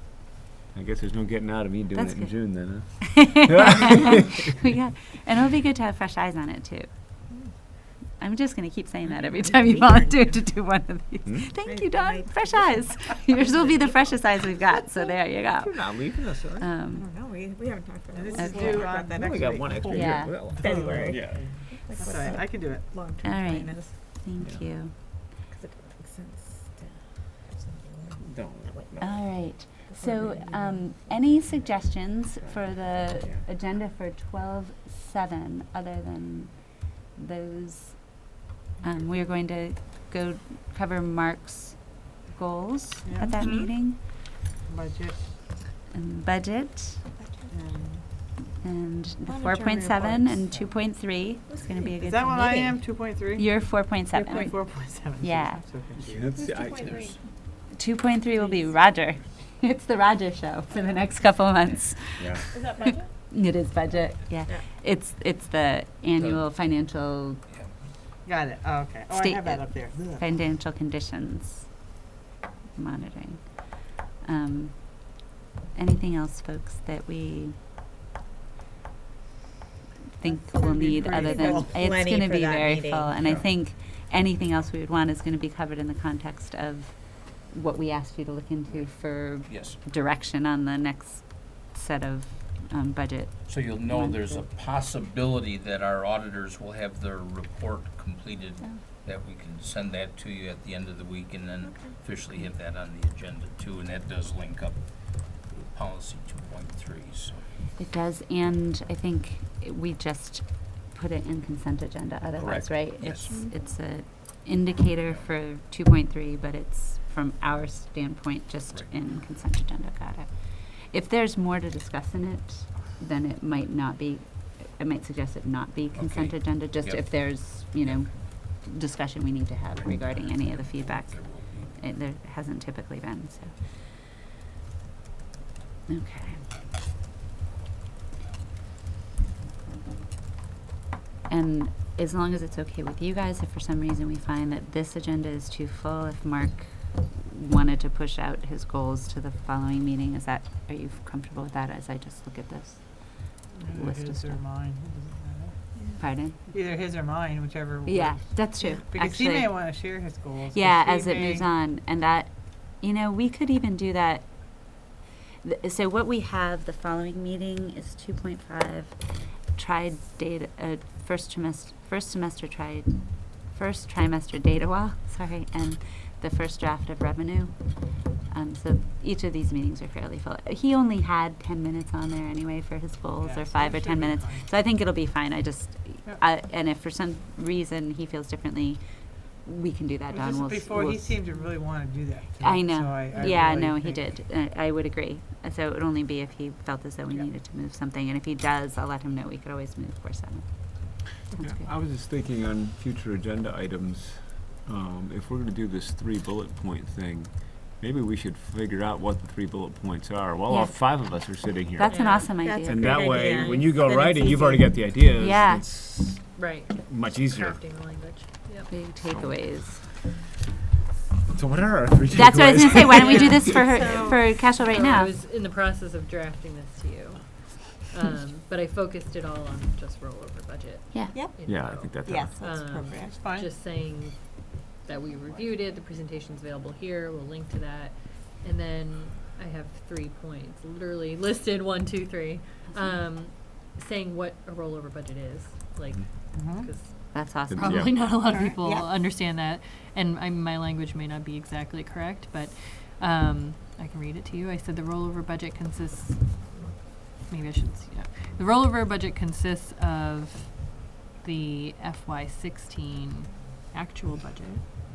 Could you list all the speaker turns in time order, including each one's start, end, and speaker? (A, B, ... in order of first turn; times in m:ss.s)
0:00.7-0:04.1 A
0:02.0-0:06.9 B
0:08.2-0:17.1 B
0:09.6-0:10.4 C
0:11.2-0:11.6 A
0:11.6-0:14.1 C
0:15.6-0:16.7 A
0:16.9-0:24.0 C
0:18.1-0:19.2 D
0:18.4-0:18.8 B
0:18.7-0:21.6 A
0:19.8-0:22.9 D
0:19.9-0:20.3 B
0:23.2-0:25.2 B
0:24.4-0:24.7 A
0:25.5-0:31.0 C
0:28.2-0:29.1 A
0:29.0-0:38.3 B
0:32.4-0:33.4 A
0:38.8-0:44.0 B
0:43.0-0:43.3 D
0:43.4-0:43.7 C
0:44.7-0:45.3 D
0:45.9-0:47.1 B
0:47.2-0:47.6 C
0:47.5-0:48.0 D
0:48.6-0:52.3 B
0:49.2-0:50.6 C
0:51.5-0:52.8 C
0:52.0-0:56.3 D
0:53.4-0:55.6 B
0:56.0-0:57.0 A
0:56.4-0:57.1 C
0:56.6-0:57.2 E
0:57.7-1:07.4 B
1:02.5-1:03.1 C
1:08.2-1:10.2 D
1:09.1-1:11.8 B
1:12.8-1:15.2 B
1:15.8-1:17.6 B
1:20.2-1:34.4 B
1:20.2-1:21.8 D
1:21.2-1:23.4 C
1:29.4-1:29.8 E
1:33.5-1:47.4 E
1:41.6-1:42.0 C
1:47.8-2:13.6 B
1:52.4-1:53.4 E
2:06.0-2:08.2 E
2:10.0-2:11.8 E
2:15.9-2:16.4 B
2:21.3-2:34.4 B
2:33.6-2:35.6 D
2:36.0-2:36.4 B
2:36.5-2:38.4 D
2:37.8-2:39.7 B
2:38.9-2:41.4 D
2:40.5-2:44.8 B
2:45.4-3:11.2 B
3:03.2-3:04.5 D
3:10.1-3:14.1 D
3:12.4-3:21.7 B
3:21.4-3:37.8 A
3:30.5-3:32.9 B
3:31.8-3:32.4 F
3:32.4-3:34.8 C
3:35.2-3:35.7 B
3:36.4-3:38.8 F
3:38.7-3:39.8 B
3:39.0-3:39.6 A
3:41.3-3:43.4 A
3:42.1-3:45.1 B
3:42.9-4:24.7 F
3:43.7-3:44.2 C
3:50.9-3:51.3 B
3:51.4-3:52.4 A
3:52.0-3:53.3 C
3:53.1-3:53.5 D
4:06.3-4:06.7 D
4:07.1-4:07.9 B
4:07.5-4:08.1 A
4:08.2-4:09.0 C